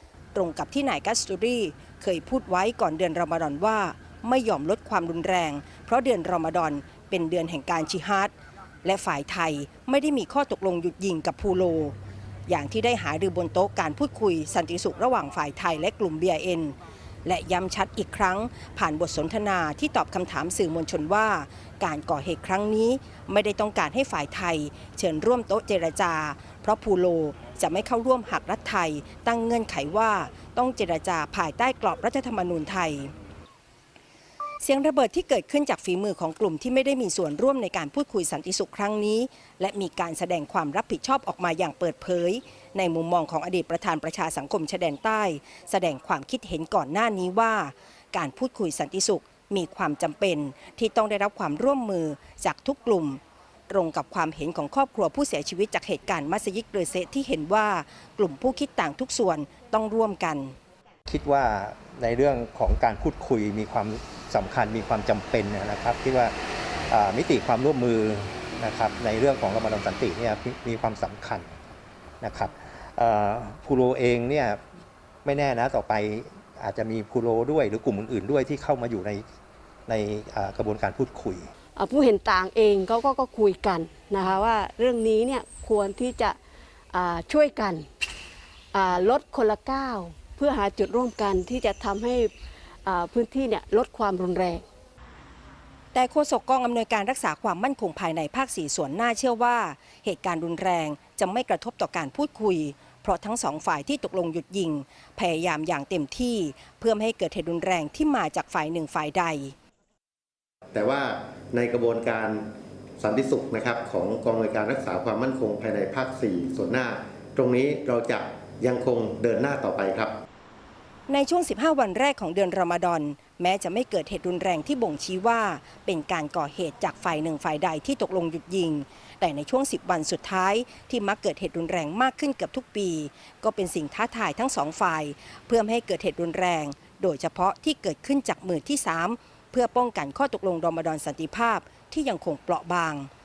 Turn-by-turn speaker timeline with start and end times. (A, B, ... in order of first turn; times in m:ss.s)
0:00.3-0:08.3 A
0:08.8-0:12.0 A
0:12.5-0:33.1 A
0:34.6-1:00.6 A
1:01.1-1:06.3 B
1:06.9-1:11.7 B
1:12.2-1:14.6 B
1:15.2-1:19.2 B
1:19.9-1:21.5 B
1:21.8-1:26.4 C
1:26.9-1:27.9 C
1:28.7-1:32.3 C
1:32.8-1:34.6 C
1:35.9-1:49.6 A
1:50.7-1:52.4 D
1:53.0-2:00.2 D
2:01.1-2:23.1 A